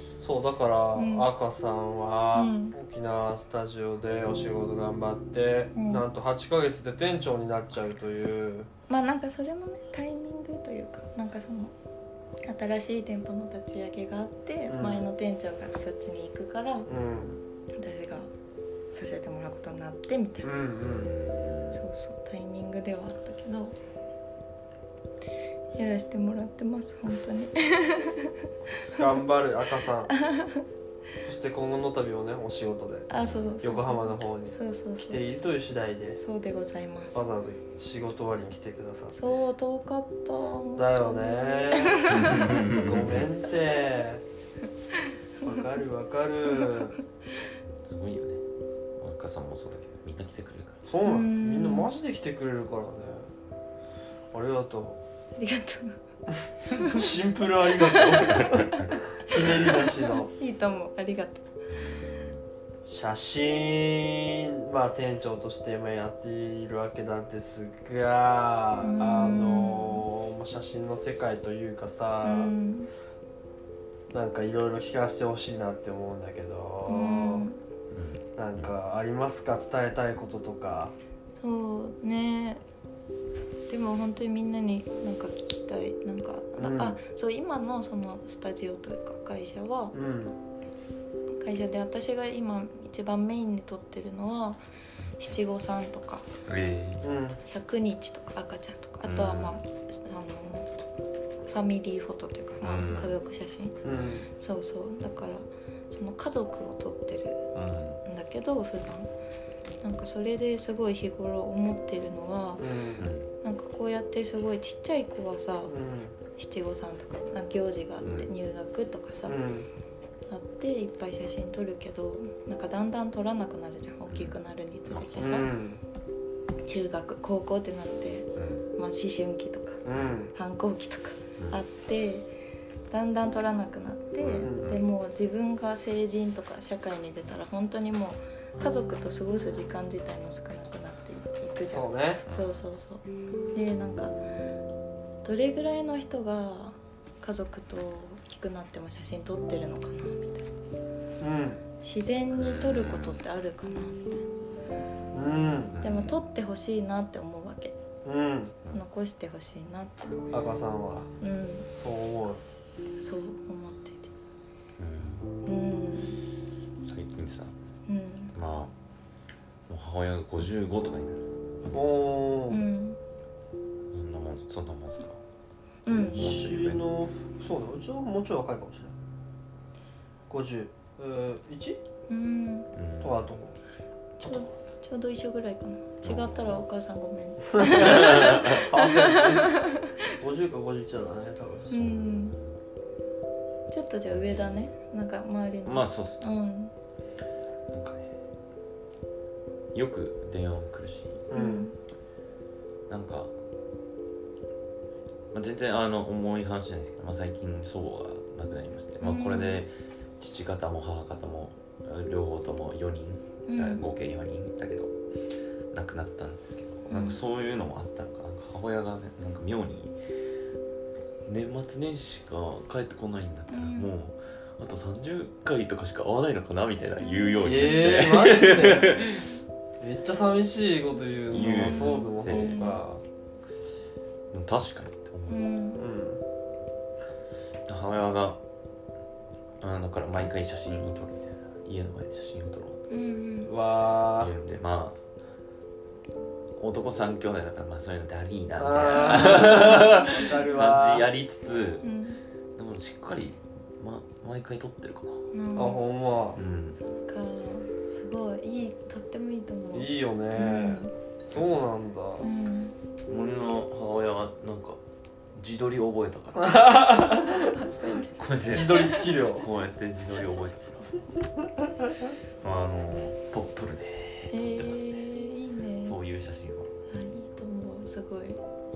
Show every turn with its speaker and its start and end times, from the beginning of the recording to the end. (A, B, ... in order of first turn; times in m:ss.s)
0:00.2-0:08.7 A
0:01.0-0:01.3 B
0:02.3-0:02.8 B
0:05.7-0:06.0 B
0:08.9-0:11.7 B
0:12.4-0:16.9 B
0:14.7-0:15.1 A
0:16.9-0:17.4 A
0:17.8-0:18.3 B
0:18.9-0:20.5 B
0:20.4-0:21.1 A
0:20.8-0:21.8 C
0:21.7-0:23.8 B
0:25.8-0:29.0 B
0:28.9-0:30.1 A
0:30.1-0:30.6 B
0:31.2-0:33.1 A
0:33.1-0:35.2 B
0:33.6-0:36.2 A
0:36.2-0:37.2 B
0:37.1-0:39.4 A
0:39.2-0:42.6 B
0:40.8-0:44.2 A
0:42.1-0:43.3 C
0:45.4-0:47.0 A
0:46.5-0:46.8 B
0:47.8-0:48.4 C
0:49.0-0:50.8 C
0:50.8-0:53.3 A
0:51.0-0:51.9 B
0:54.3-0:55.0 A
0:55.4-0:56.0 B
0:56.7-0:57.0 B
0:56.8-1:00.3 A
0:57.8-0:59.7 B
0:58.3-0:59.7 C
1:00.3-1:01.5 B
1:01.7-1:02.4 C
1:02.8-1:12.5 A
1:08.8-1:10.0 B
1:12.2-1:12.9 B
1:14.1-1:17.5 A
1:16.9-1:17.6 B
1:17.9-1:18.7 C
1:18.4-1:21.0 A
1:21.4-1:22.6 B
1:23.7-1:30.0 B
1:26.6-1:27.0 A
1:29.9-1:30.4 A
1:31.4-1:34.6 B
1:35.2-1:36.3 B
1:36.5-1:37.1 C
1:37.0-1:37.4 A
1:37.5-1:40.7 B
1:39.0-1:39.6 C
1:41.5-1:43.8 B
1:42.6-1:43.2 C
1:43.8-1:44.1 C
1:43.9-1:44.3 A
1:44.4-1:47.5 B
1:47.5-1:48.0 C
1:48.0-1:49.1 B
1:49.8-1:52.7 B
1:52.6-1:53.1 A
1:53.0-1:53.3 C
1:53.4-1:55.8 B
1:55.7-1:56.2 A
1:56.4-1:59.4 B
1:58.0-1:58.3 C
1:59.3-1:59.7 A
2:00.3-2:05.5 B
2:04.9-2:05.4 C
2:05.2-2:05.8 A
2:06.6-2:09.8 B
2:08.4-2:08.6 C
2:09.9-2:10.3 A
2:10.3-2:12.3 B
2:12.9-2:24.2 B
2:14.2-2:14.8 C
2:14.4-2:14.7 A
2:21.6-2:22.2 A
2:22.3-2:22.6 C
2:25.2-2:30.5 B
2:31.2-2:31.6 A
2:31.8-2:34.2 B
2:32.4-2:33.2 C
2:35.1-2:35.8 A
2:35.7-2:36.2 C
2:35.8-2:37.8 B
2:38.0-2:38.6 A
2:38.7-2:40.2 B
2:40.3-2:41.1 A
2:41.2-2:41.7 B
2:41.7-2:42.4 A
2:43.0-2:44.1 B
2:44.8-2:45.3 C
2:45.4-2:46.2 B
2:46.8-2:47.5 C
2:47.9-2:48.3 B
2:48.4-2:48.7 C
2:49.7-2:52.0 C
2:51.7-2:52.6 A
2:52.5-2:53.0 B
2:53.9-2:55.2 C
2:55.9-2:56.2 B
2:55.9-2:56.9 C
2:55.9-2:59.0 A
3:00.3-3:01.8 A
3:02.1-3:02.7 B
3:02.7-3:03.3 C
3:03.0-3:03.6 A
3:04.2-3:04.5 A
3:04.2-3:10.0 B
3:06.0-3:06.6 C
3:07.5-3:09.6 A
3:07.7-3:08.6 C
3:10.1-3:11.7 A
3:11.7-3:12.6 C
3:11.7-3:12.4 B
3:13.7-3:16.7 B
3:14.1-3:14.7 C
3:15.6-3:16.3 C
3:17.7-3:18.1 C
3:19.7-3:21.3 C
3:21.3-3:21.7 A
3:21.3-3:21.8 B
3:22.9-3:23.3 C
3:25.3-3:34.9 C
3:29.0-3:29.6 B
3:33.5-3:33.8 B
3:35.7-3:40.0 C
3:36.9-3:37.2 B
3:41.2-3:49.3 C
3:43.5-3:43.9 B
3:47.0-3:47.9 B
3:47.4-3:49.0 A
3:49.8-3:53.0 A
3:51.3-3:52.8 C
3:51.6-3:52.8 B
3:54.3-3:55.5 C
3:55.3-3:55.8 B
3:55.8-3:56.2 A
3:57.7-3:58.4 C
3:59.6-4:02.8 C
4:02.9-4:03.5 B
4:03.4-4:04.3 A
4:04.1-4:05.0 C
4:06.6-4:11.9 C
4:08.6-4:11.1 A
4:08.9-4:10.3 B
4:11.8-4:12.2 B
4:12.6-4:15.3 C
4:15.3-4:15.8 B
4:15.6-4:16.4 A
4:16.4-4:16.8 C
4:16.8-4:20.9 B
4:19.7-4:22.3 A
4:22.2-4:22.8 B
4:23.1-4:24.8 C
4:25.4-4:26.9 C
4:26.4-4:27.6 A
4:27.2-4:29.1 B
4:28.2-4:31.1 C
4:28.5-4:29.5 A
4:32.4-4:35.1 C
4:34.3-4:36.0 B
4:35.8-4:36.7 C
4:36.9-4:38.4 B